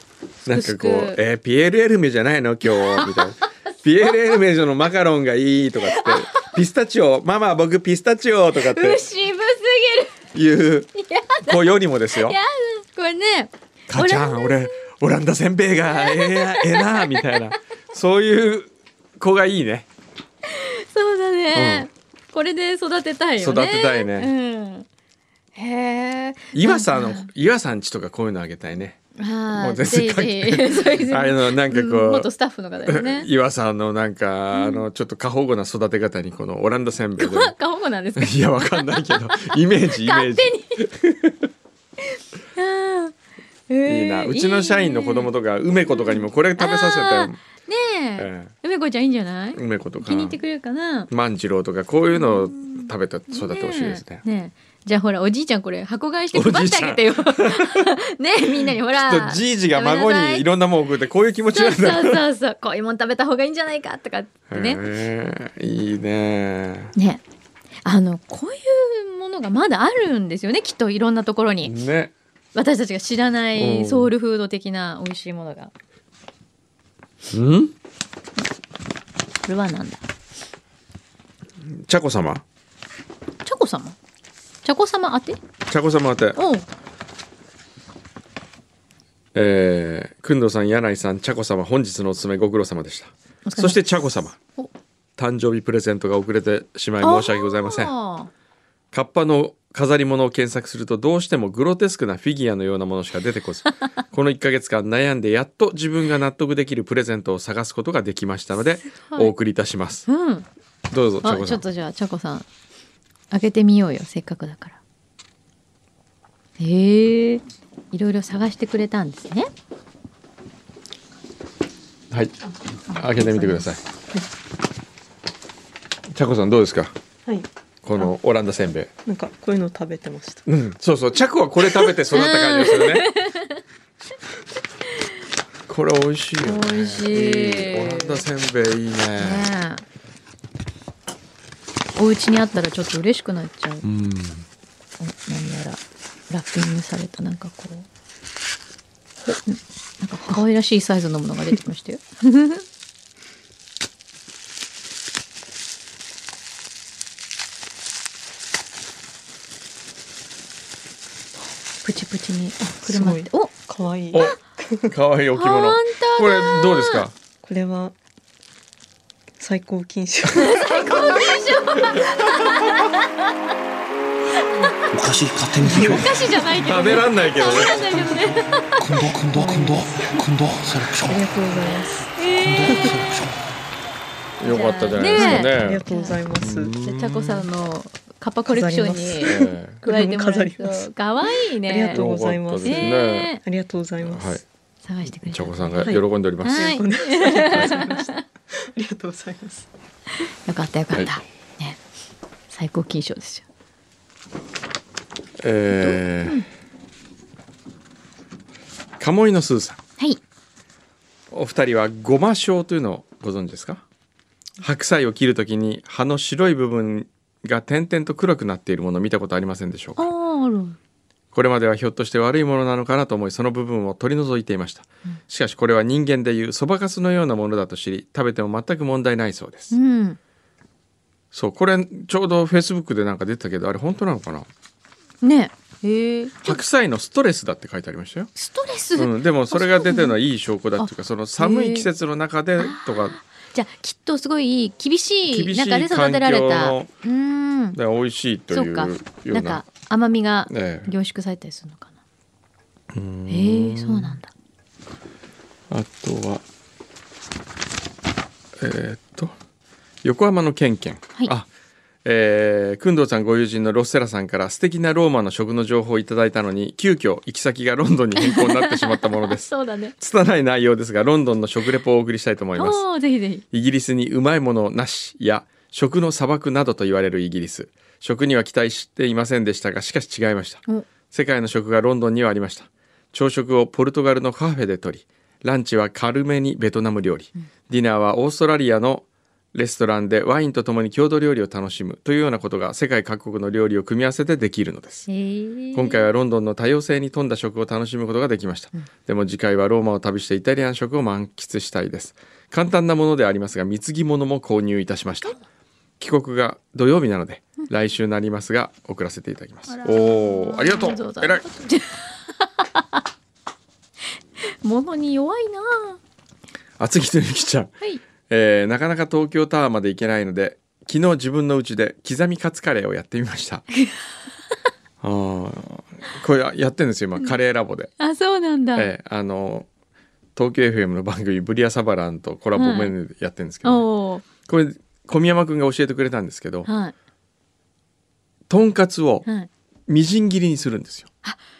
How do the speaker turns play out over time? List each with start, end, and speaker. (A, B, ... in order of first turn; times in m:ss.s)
0:00.4-0:01.2 A
0:00.4-0:09.0 B
0:02.7-0:03.3 A
0:05.9-0:06.6 A
0:08.6-0:10.2 A
0:10.3-0:10.9 B
0:11.0-0:14.7 A
0:11.4-0:12.4 B
0:13.9-0:19.9 B
0:15.9-0:17.5 A
0:20.4-0:24.9 A
0:21.5-0:21.9 B
0:23.4-0:24.3 B
0:25.5-0:27.3 A
0:26.5-0:29.0 B
0:29.2-0:33.3 A
0:29.6-0:32.3 B
0:32.8-0:37.5 B
0:34.5-0:34.8 A
0:37.2-0:40.8 A
0:38.2-0:41.5 B
0:42.5-0:43.1 A
0:43.7-0:45.3 A
0:43.8-0:47.4 B
0:45.9-0:51.1 A
0:48.2-0:48.5 B
0:49.5-0:50.4 B
0:51.1-0:54.2 B
0:52.1-1:00.4 A
0:56.3-0:57.9 B
0:58.7-1:02.2 B
1:01.5-1:04.8 A
1:04.5-1:06.9 B
1:07.0-1:07.2 A
1:07.8-1:11.7 A
1:11.6-1:12.1 B
1:12.5-1:15.7 A
1:13.6-1:14.1 B
1:17.3-1:17.7 B
1:19.4-1:20.0 A
1:21.6-1:22.4 B
1:23.4-1:24.0 A
1:24.6-1:25.4 A
1:25.7-1:26.4 B
1:26.4-1:26.6 A
1:29.3-1:34.4 B
1:33.4-1:33.8 A
1:35.2-1:37.9 B
1:37.0-1:38.3 A
1:38.9-1:50.1 B
1:48.9-1:49.3 A
1:50.1-1:50.5 A
1:50.9-1:51.6 B
1:51.2-1:52.4 A
1:53.3-1:54.8 A
1:56.6-1:59.5 A
2:02.1-2:02.4 B
2:02.9-2:03.6 A
2:02.9-2:03.8 B
2:06.1-2:06.9 B
2:07.2-2:08.1 C
2:07.8-2:08.9 B
2:09.0-2:10.5 C
2:10.4-2:13.1 B
2:12.0-2:13.6 A
2:15.7-2:19.5 B
2:16.4-2:18.2 A
2:19.2-2:19.8 A
2:22.0-2:23.8 A
2:23.8-2:24.4 B
2:25.0-2:27.9 A
2:29.4-2:32.6 A
2:41.8-2:43.5 A
2:42.8-2:44.9 C
2:44.1-2:47.1 B
2:45.3-2:47.0 A
2:47.4-2:47.9 C
2:49.4-2:51.4 C
2:50.3-2:53.2 A
2:54.4-2:54.7 A
2:54.9-2:56.2 D
2:55.6-2:56.0 C
2:55.8-2:58.6 A
2:56.6-2:57.8 B
2:57.8-2:58.1 D
2:58.8-3:01.2 D
2:59.3-3:00.2 C
3:01.1-3:02.2 C
3:02.2-3:02.8 A
3:02.2-3:03.4 D
3:04.4-3:05.8 B
3:04.4-3:06.2 A
3:05.1-3:06.8 C
3:06.4-3:07.5 B
3:06.8-3:12.0 A
3:08.5-3:10.9 C
3:09.2-3:09.8 B
3:11.6-3:14.4 C
3:11.9-3:13.3 B
3:12.6-3:13.4 A
3:14.0-3:14.4 B
3:14.8-3:18.2 A
3:15.0-3:16.8 B
3:15.8-3:18.2 C
3:18.7-3:19.7 C
3:20.4-3:21.8 A
3:22.5-3:23.4 A
3:25.4-3:26.4 B
3:25.8-3:26.4 A
3:29.0-3:29.8 B
3:31.3-3:33.8 B
3:34.6-3:40.1 B
3:40.0-3:40.8 A
3:41.3-3:49.7 B
3:49.7-3:50.2 A
3:51.3-3:54.5 B
3:55.2-3:56.6 A
3:56.4-3:58.3 B
3:58.4-4:00.2 A
3:58.9-4:03.2 B
4:00.8-4:01.9 A
4:02.6-4:07.8 A
4:05.3-4:06.9 B
4:07.7-4:09.6 B
4:08.5-4:11.9 A
4:10.5-4:10.9 B
4:12.9-4:14.2 B
4:13.3-4:14.3 A
4:15.7-4:16.4 B
4:18.6-4:19.3 B
4:20.0-4:21.5 B
4:22.0-4:32.8 B
4:28.2-4:29.9 A
4:32.6-4:33.4 A
4:33.5-4:55.1 B
4:55.1-4:56.0 A
4:55.7-5:05.4 B
5:06.0-5:11.4 B
5:09.7-5:13.0 A
5:14.6-5:16.0 A
5:16.8-5:17.7 B
5:18.3-5:23.6 B
5:25.0-5:27.9 B
5:28.0-5:28.9 A
5:28.7-5:29.7 B
5:30.4-5:33.8 B
5:32.5-5:32.9 A
5:33.6-5:34.2 A
5:34.4-5:36.7 B
5:36.6-5:36.9 A
5:38.5-5:39.2 B
5:39.9-5:41.1 B